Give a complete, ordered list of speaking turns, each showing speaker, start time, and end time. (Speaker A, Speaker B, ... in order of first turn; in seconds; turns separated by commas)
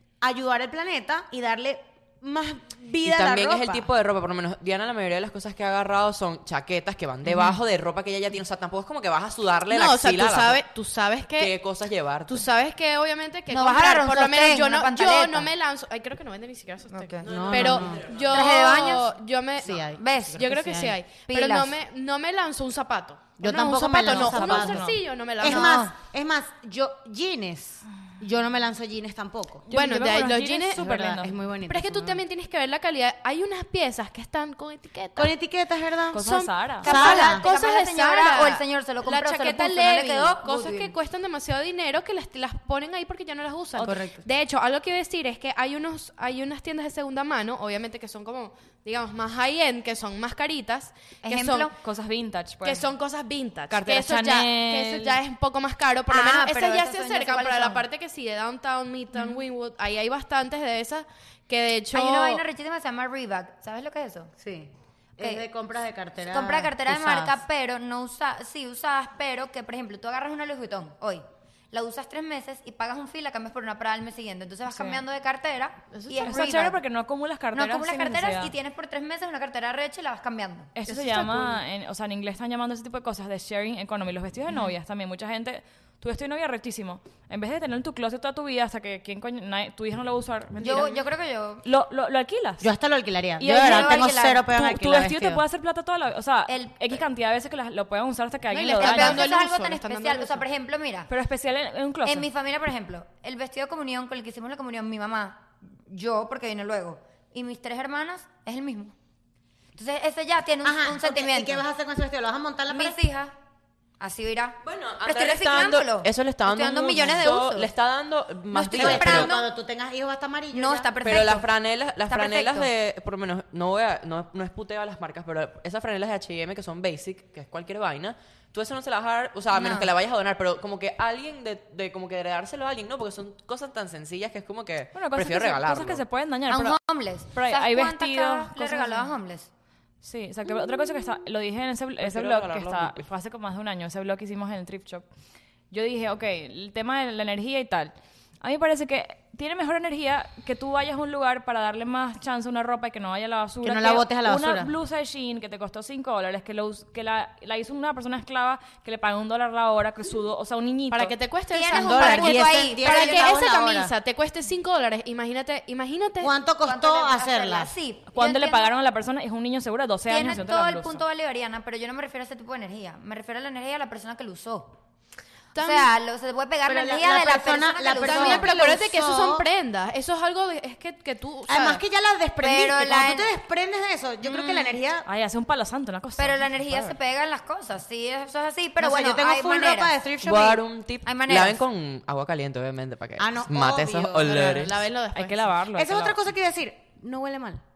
Speaker A: 0.2-3.9, Speaker B: 3.0-10.6, Speaker C: 9.7-11.5, Speaker B: 11.3-12.5, Speaker C: 12.3-25.6, Speaker D: 13.5-15.5, Speaker D: 16.9-17.4, Speaker B: 17.2-18.4, Speaker A: 17.2-18.2, Speaker D: 18.3-19.1, Speaker A: 19.6-21.0, Speaker D: 19.9-20.5, Speaker D: 21.3-21.8, Speaker A: 23.4-29.6, Speaker E: 24.1-25.0, Speaker D: 25.4-25.9, Speaker E: 29.7-31.3, Speaker C: 29.7-30.7, Speaker A: 30.7-32.2, Speaker C: 31.7-35.3, Speaker A: 35.2-36.2, Speaker E: 36.1-36.9, Speaker C: 36.3-51.6, Speaker A: 36.8-37.5, Speaker D: 36.8-40.4, Speaker A: 40.4-40.9, Speaker A: 43.8-44.2, Speaker D: 51.2-51.8, Speaker E: 51.8-52.9, Speaker C: 52.6-62.4, Speaker E: 53.7-55.2, Speaker D: 56.1-57.9, Speaker D: 61.9-64.3, Speaker A: 64.4-67.4, Speaker D: 65.2-65.5, Speaker D: 66.2-76.8, Speaker E: 74.7-75.0, Speaker C: 75.9-76.2, Speaker E: 76.2-78.5, Speaker D: 77.5-80.7, Speaker E: 80.8-91.0, Speaker C: 80.9-81.6, Speaker D: 90.6-91.7, Speaker E: 91.6-92.7, Speaker A: 92.6-95.4, Speaker E: 93.4-99.3, Speaker D: 93.5-94.5, Speaker D: 96.5-97.0, Speaker C: 98.5-100.4, Speaker D: 98.8-101.1, Speaker E: 101.1-102.3, Speaker D: 102.0-108.9, Speaker D: 109.8-111.6, Speaker A: 110.6-113.0, Speaker D: 112.7-113.3, Speaker D: 114.0-117.7, Speaker B: 114.6-119.3, Speaker D: 118.5-119.5, Speaker A: 118.8-120.9, Speaker D: 120.5-121.5, Speaker B: 121.0-136.0, Speaker D: 122.1-122.7, Speaker D: 129.5-129.9, Speaker E: 134.9-136.8, Speaker D: 136.5-139.5, Speaker E: 137.3-139.1, Speaker E: 140.0-145.1, Speaker B: 142.0-143.1, Speaker E: 145.7-161.1, Speaker A: 153.6-154.7, Speaker C: 160.9-162.3, Speaker D: 161.5-163.4, Speaker A: 161.7-163.9, Speaker C: 163.0-166.3, Speaker A: 166.2-167.7, Speaker D: 166.6-168.7, Speaker E: 168.1-171.0, Speaker D: 170.1-174.8, Speaker D: 175.5-178.9, Speaker C: 175.6-175.9, Speaker A: 176.7-179.4, Speaker C: 178.1-181.8, Speaker A: 181.5-185.1, Speaker D: 182.4-183.3, Speaker D: 184.2-184.8, Speaker E: 185.1-186.6, Speaker D: 186.2-189.9, Speaker A: 188.8-190.6, Speaker B: 190.2-194.9, Speaker D: 191.0-191.7, Speaker A: 193.2-194.7, Speaker C: 194.3-195.5, Speaker E: 195.1-196.2, Speaker A: 195.7-197.6